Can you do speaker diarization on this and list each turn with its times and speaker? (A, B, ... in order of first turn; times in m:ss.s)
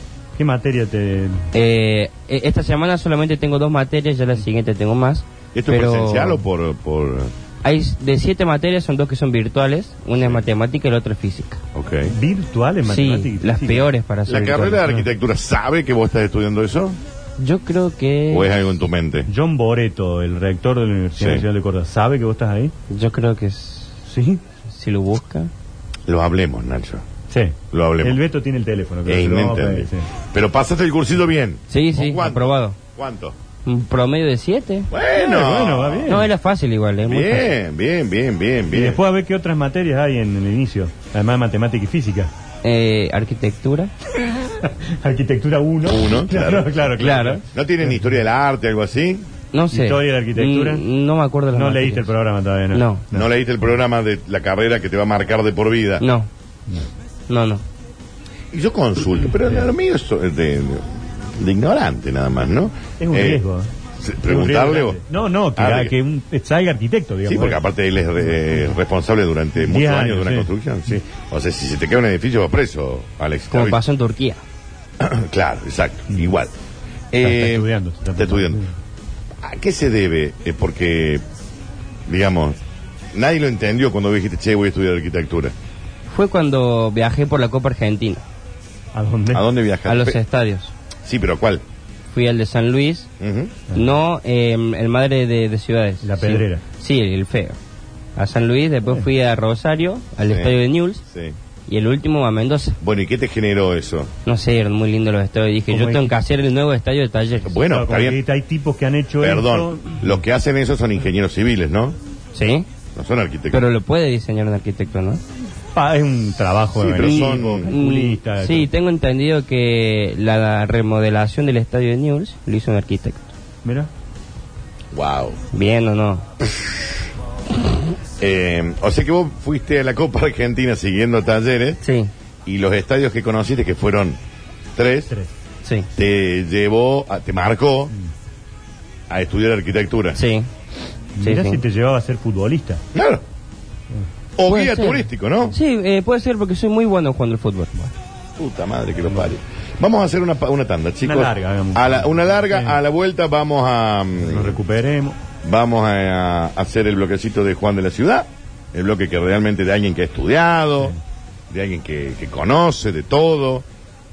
0:00.4-0:01.5 A
0:01.5-0:06.4 B
0:05.5-0:07.3 C
0:07.6-0:11.6 B
0:11.7-0:12.1 C
0:12.1-0:13.9 A
0:12.9-0:14.8 B
0:14.3-0:17.0 C
0:17.4-0:18.7 B
0:18.3-0:19.3 C
0:19.3-0:22.7 A
0:21.2-0:21.4 C
0:22.9-0:24.0 B
0:24.1-0:24.4 A
0:24.7-0:25.5 B
0:26.1-0:27.0 C
0:27.3-0:30.1 A
0:27.7-0:28.2 C
0:29.0-0:33.4 C
0:31.7-0:32.8 B
0:33.6-0:34.9 B
0:34.9-0:36.1 C
0:35.2-0:36.3 A
0:36.1-0:37.5 B
0:37.0-0:39.0 C
0:38.7-0:42.3 A
0:42.6-0:43.9 B
0:44.4-0:48.1 A
0:45.8-0:49.3 C
0:47.0-0:47.4 B
0:49.5-0:52.1 B
0:49.7-0:50.8 A
0:51.5-0:53.3 A
0:52.7-0:53.0 B
0:53.1-0:56.0 C
0:56.0-0:56.3 B
0:57.3-0:57.6 B
0:58.5-1:03.4 C
1:03.0-1:03.7 A
1:04.0-1:05.0 C
1:04.2-1:07.6 A
1:05.6-1:05.9 C
1:07.2-1:13.8 C
1:09.6-1:11.0 A
1:13.5-1:14.4 B
1:15.0-1:16.5 C
1:17.1-1:18.6 C
1:17.2-1:18.7 A
1:19.4-1:21.2 C
1:22.0-1:22.6 C
1:23.1-1:25.5 C
1:26.1-1:28.2 B
1:28.9-1:29.4 A
1:29.3-1:30.2 C
1:29.9-1:30.7 B
1:31.0-1:31.6 C
1:32.1-1:33.1 B
1:33.2-1:33.6 C
1:33.7-1:34.0 A
1:33.7-1:37.6 B
1:36.0-1:36.6 A
1:38.2-1:41.0 B
1:40.2-1:40.5 C
1:41.0-1:41.4 C
1:41.7-1:42.8 B
1:42.8-1:44.1 C
1:44.2-1:47.6 B
1:45.7-1:46.1 A
1:47.4-1:48.2 C
1:47.7-1:50.2 A
1:49.2-1:52.0 C
1:52.3-1:52.6 B
1:53.0-1:53.6 C
1:53.5-1:55.2 B
1:55.7-1:58.7 A
1:56.7-1:57.7 C
1:57.0-2:03.3 B
2:03.6-2:03.9 A
2:04.9-2:05.4 C
2:05.5-2:06.2 B
2:08.2-2:11.8 C
2:11.8-2:12.1 B
2:12.4-2:14.2 C
2:14.7-2:15.1 C
2:16.0-2:17.9 C
2:19.1-2:20.2 C
2:20.1-2:20.5 B
2:21.2-2:22.8 A
2:21.2-2:21.6 B
2:22.9-2:23.2 C
2:24.4-2:25.6 C
2:24.5-2:27.9 B
2:28.4-2:34.6 C
2:31.0-2:32.8 A
2:34.2-2:35.2 A
2:35.4-2:40.9 C
2:41.5-2:43.6 C